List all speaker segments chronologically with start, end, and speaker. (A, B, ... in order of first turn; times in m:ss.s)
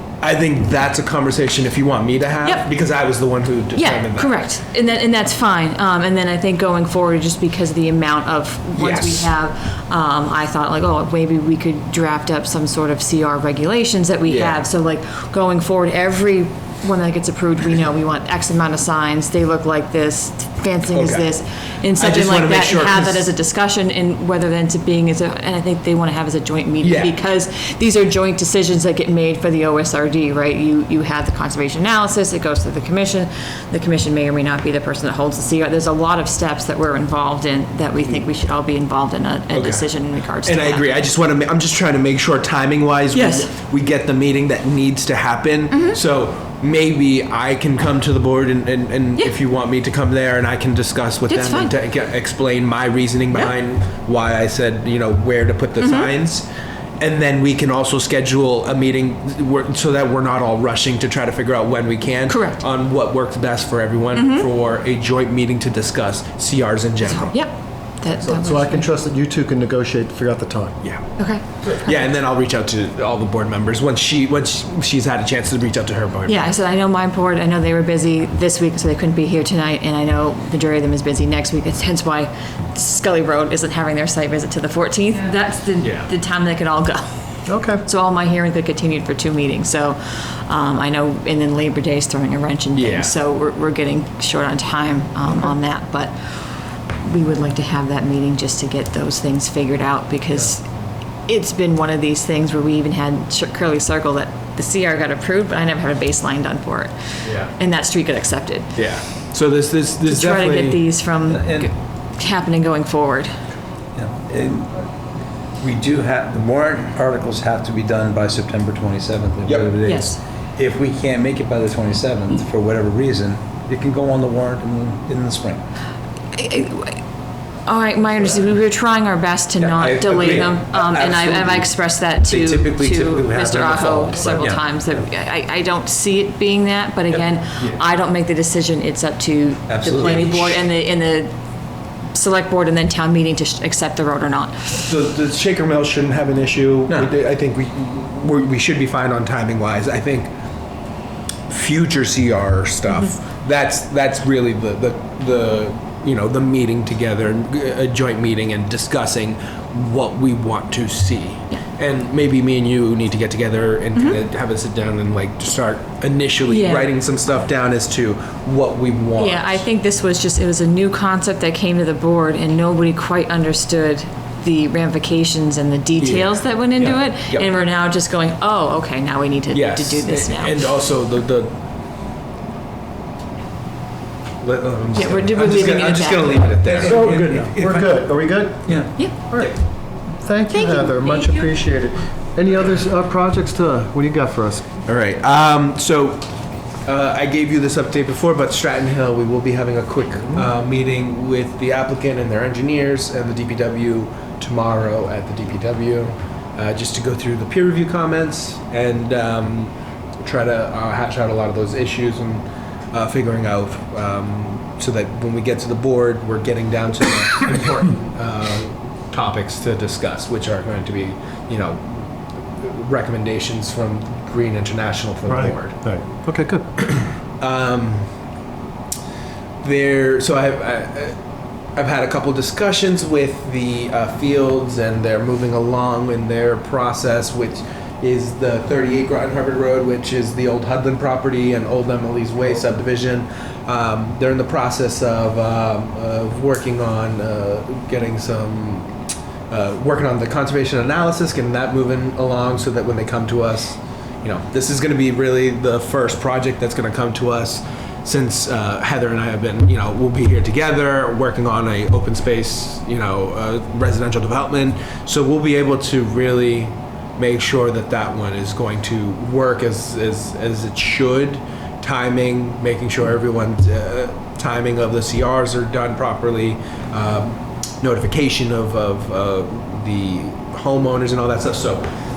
0:00.2-0:04.3 A
0:03.8-0:41.0 B
0:08.8-0:09.3 A
0:14.3-0:14.7 A
0:20.9-0:21.3 A
0:22.0-0:23.3 A
0:26.8-0:27.2 A
0:39.5-0:39.9 A
0:40.4-0:56.5 A
0:43.1-0:43.5 B
0:45.7-0:46.0 B
0:51.3-0:51.7 B
0:55.8-0:56.1 B
0:57.0-1:07.4 A
1:02.3-1:02.6 B
1:04.2-1:04.5 B
1:07.1-1:08.9 B
1:08.2-1:10.8 C
1:11.2-1:12.1 B
1:11.7-1:16.5 A
1:16.3-1:27.1 B
1:25.8-1:26.1 A
1:27.5-1:27.8 C
1:27.8-1:36.1 B
1:32.7-1:33.2 A
1:37.0-1:40.6 B
1:41.3-1:46.9 B
1:47.2-1:47.5 A
1:47.5-1:48.7 B
1:48.8-1:50.8 A
1:50.0-1:53.3 B
1:51.2-1:51.7 D
1:54.0-1:54.8 D
1:55.6-2:05.6 D
1:59.4-1:59.7 A
1:59.8-2:00.2 B
2:06.3-2:07.0 B
2:07.7-2:21.3 B
2:09.6-2:11.7 A
2:12.3-2:14.4 A
2:13.5-2:14.6 D
2:17.2-2:17.8 A
2:19.7-2:20.2 D
2:19.9-2:20.6 A
2:22.1-2:24.8 B
2:24.7-2:30.3 A
2:31.5-2:49.6 A
2:46.5-2:46.9 B
2:49.2-3:00.5 B
2:56.0-2:57.5 A
2:59.5-3:01.6 A
3:04.4-3:08.1 A
3:04.9-3:06.5 B
3:06.7-3:07.7 D
3:06.8-3:09.5 C
3:08.7-3:09.6 A
3:08.7-3:09.0 D
3:10.2-3:14.6 C
3:10.5-3:11.5 B
3:14.8-3:16.2 A
3:16.9-3:45.8 A
3:45.3-3:46.7 C
3:46.9-3:48.1 A
3:49.6-3:51.2 A
3:51.8-4:08.9 A
4:09.5-4:41.8 A